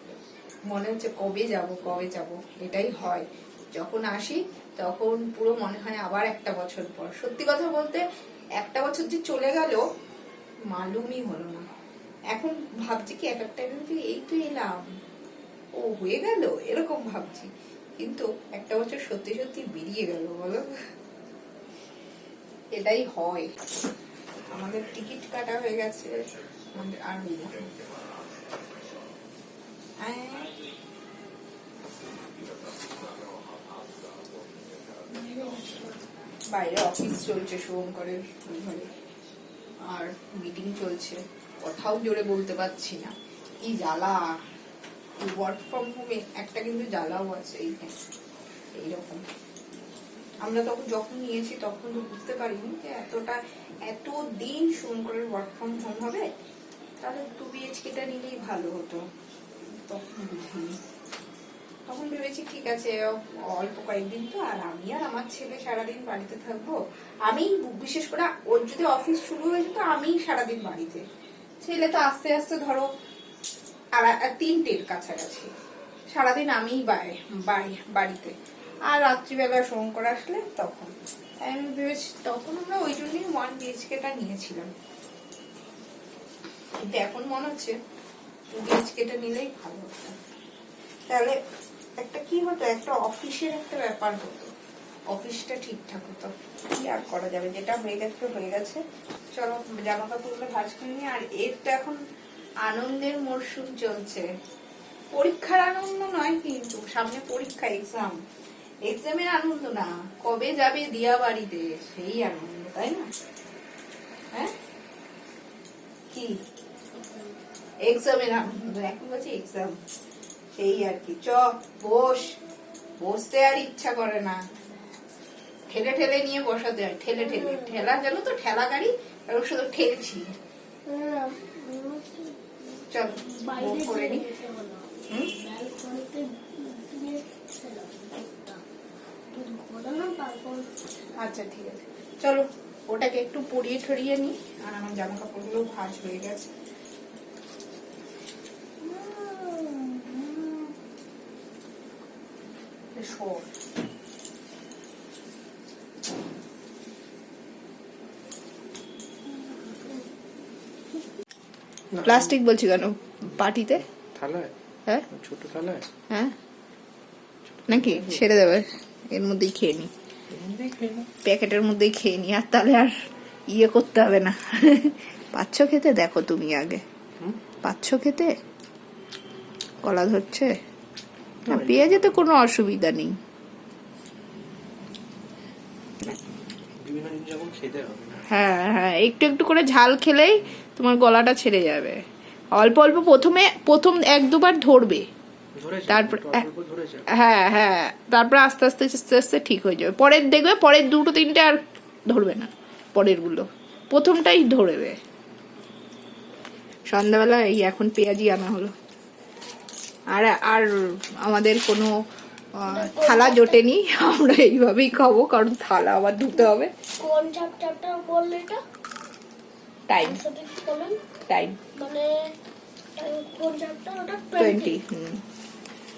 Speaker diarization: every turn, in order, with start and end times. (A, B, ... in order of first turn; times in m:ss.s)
0:00.7-0:08.0 A
0:08.6-0:09.8 A
0:10.7-0:11.7 A
0:12.3-0:14.8 A
0:15.8-0:20.7 A
0:22.8-0:23.5 A
0:24.5-0:26.1 A
0:26.7-0:27.7 A
0:30.0-0:30.6 A
0:35.1-0:36.0 B
0:36.5-0:38.9 A
0:39.8-0:43.1 A
0:43.6-0:44.2 A
0:45.2-0:48.0 A
0:48.8-0:49.2 A
0:50.4-0:56.3 A
0:57.0-0:59.0 A
0:59.8-1:00.8 A
1:01.9-1:11.0 A
1:11.6-1:12.9 A
1:14.0-1:15.5 A
1:16.1-1:18.4 A
1:18.9-1:24.7 A
1:26.8-1:27.8 A
1:28.5-1:30.2 A
1:31.1-1:31.4 A
1:32.0-1:34.5 A
1:35.1-1:38.8 A
1:39.4-1:42.0 A
1:42.7-1:44.2 A
1:45.1-1:48.2 A
1:48.9-1:53.1 A
1:56.1-1:56.4 A
1:57.0-1:57.4 B
1:57.8-1:59.8 A
2:00.6-2:02.4 A
2:03.0-2:04.4 A
2:05.7-2:10.2 A
2:07.2-2:07.8 B
2:10.9-2:18.6 B
2:12.9-2:14.3 A
2:19.3-2:20.7 B
2:21.2-2:26.5 A
2:28.9-2:30.2 A
2:29.1-2:29.7 B
2:33.0-2:33.4 A
2:39.3-2:40.1 B
2:42.0-2:42.3 C
2:42.0-2:43.9 A
2:44.2-2:44.5 C
2:45.2-2:45.9 C
2:47.6-2:48.0 C
2:47.7-2:49.9 A
2:50.3-2:51.1 C
2:51.2-2:52.9 A
2:53.5-2:56.8 A
2:57.6-2:58.3 A
2:59.8-3:00.5 A
3:01.5-3:03.1 A
3:01.5-3:01.8 C
3:06.8-3:08.2 C
3:08.3-3:12.0 A
3:12.6-3:15.1 A
3:15.6-3:17.0 C
3:15.9-3:16.5 A
3:17.1-3:25.0 A
3:26.9-3:28.7 A
3:30.1-3:30.7 A
3:31.2-3:32.0 A
3:32.6-3:36.7 A
3:32.7-3:33.6 B
3:36.4-3:38.6 B
3:39.9-3:40.2 A
3:40.0-3:41.0 B
3:41.3-3:41.6 A
3:41.8-3:42.1 B
3:43.0-3:44.8 B
3:44.4-3:45.2 A